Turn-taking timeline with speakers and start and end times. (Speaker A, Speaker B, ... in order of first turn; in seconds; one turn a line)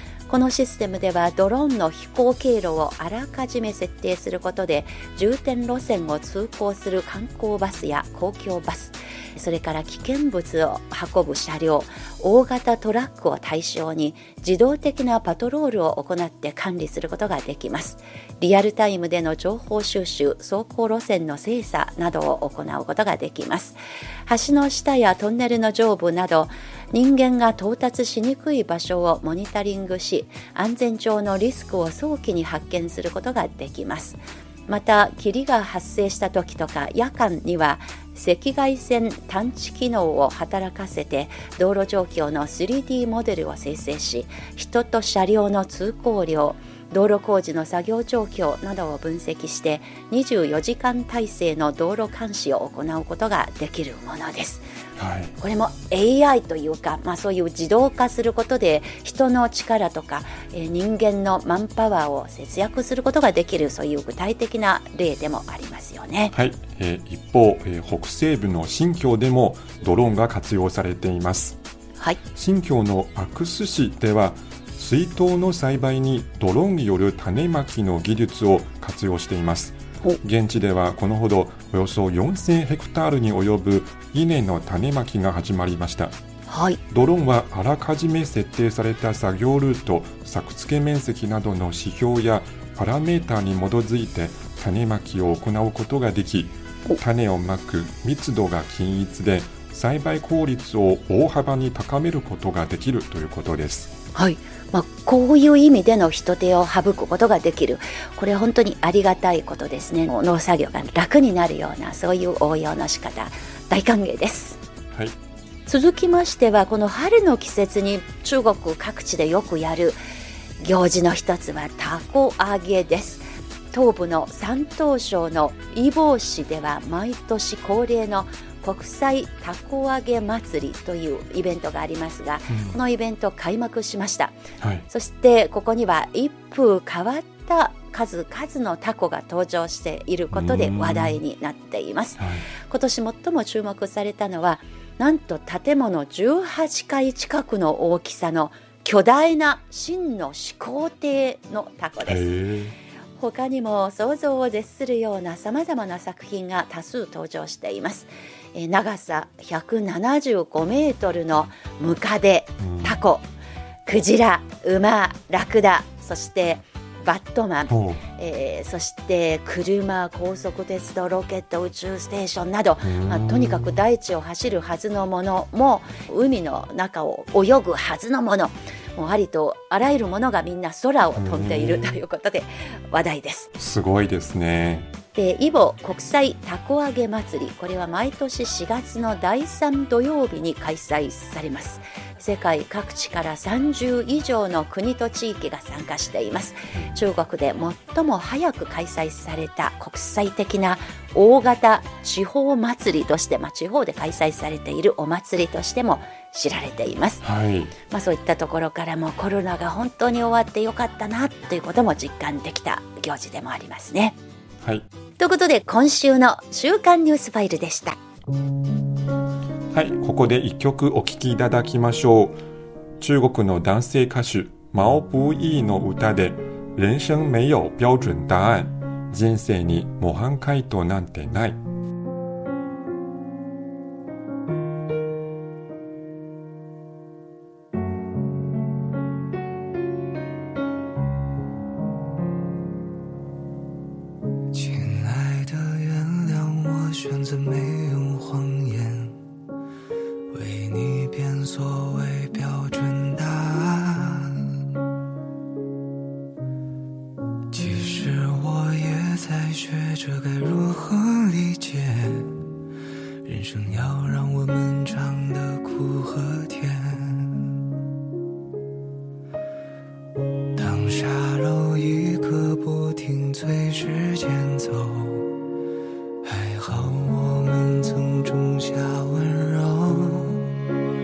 Speaker A: 0.3-54.7
Speaker B: 55.0-55.3
Speaker A: 55.4-66.3
Speaker B: 66.3-71.6
Speaker B: 72.3-86.1
Speaker A: 86.5-86.8
Speaker B: 86.9-103.9
Speaker A: 104.1-114.6
Speaker A: 115.7-120.0
Speaker A: 120.6-134.4
Speaker B: 132.5-132.8
Speaker B: 134.6-134.8
Speaker A: 134.9-152.2
Speaker B: 140.3-141.2
Speaker B: 142.2-142.5
Speaker B: 152.0-152.8
Speaker A: 153.2-163.2
Speaker B: 162.6-163.0
Speaker A: 163.8-183.5
Speaker B: 167.7-168.0
Speaker B: 172.8-173.8
Speaker B: 181.2-182.0
Speaker B: 183.6-184.9
Speaker A: 185.1-207.2
Speaker B: 207.2-207.7
Speaker A: 207.9-214.2
Speaker A: 215.2-218.0
Speaker B: 219.7-222.4
Speaker B: 223.0-231.6
Speaker C: 244.5-249.2
Speaker C: 250.3-254.6
Speaker C: 257.5-262.4
Speaker C: 263.2-267.6
Speaker C: 270.5-275.3
Speaker C: 276.2-280.5